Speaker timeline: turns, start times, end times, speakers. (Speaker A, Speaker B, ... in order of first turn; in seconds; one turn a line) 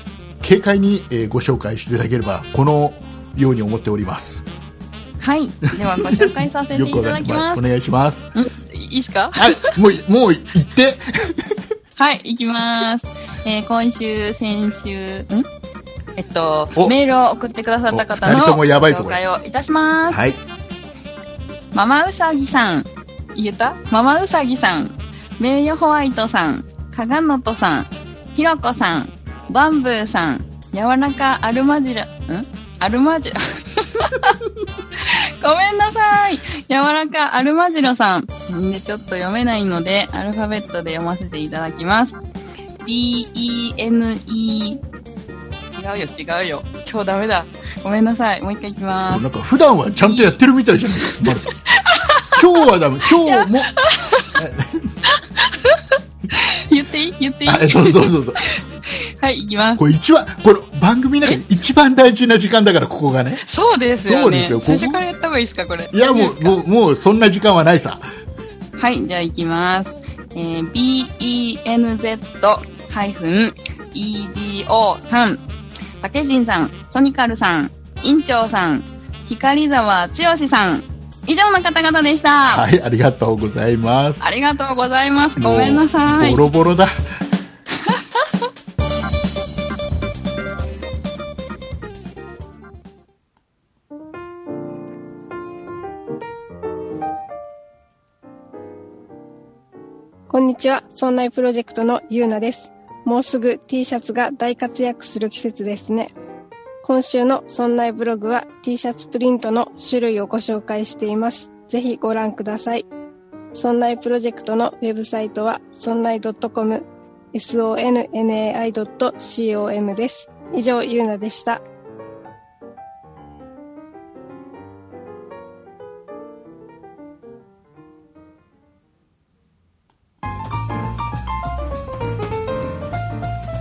Speaker A: 0.4-4.5
Speaker B: 5.2-7.6
Speaker A: 5.9-8.3
Speaker B: 8.3-9.8
Speaker A: 9.4-11.6
Speaker B: 12.0-15.5
Speaker B: 16.2-20.2
Speaker A: 17.9-19.2
Speaker A: 20.1-20.4
Speaker B: 21.7-34.4
Speaker B: 35.0-42.2
Speaker B: 42.9-44.8
Speaker B: 45.7-49.2
Speaker A: 49.1-51.6
Speaker B: 50.0-50.4
Speaker B: 51.1-52.4
Speaker A: 52.3-53.8
Speaker B: 53.0-54.4
Speaker A: 54.4-54.9
Speaker B: 55.1-59.8
Speaker A: 57.5-58.4
Speaker A: 59.8-63.4
Speaker B: 63.4-66.6
Speaker A: 64.0-65.0
Speaker A: 65.9-68.1
Speaker B: 68.8-75.4
Speaker B: 76.0-82.7
Speaker A: 82.5-84.3
Speaker B: 84.2-86.5
Speaker A: 85.4-87.0
Speaker B: 87.8-88.3
Speaker C: 100.3-106.1
Speaker C: 106.8-112.9
Speaker C: 113.5-121.6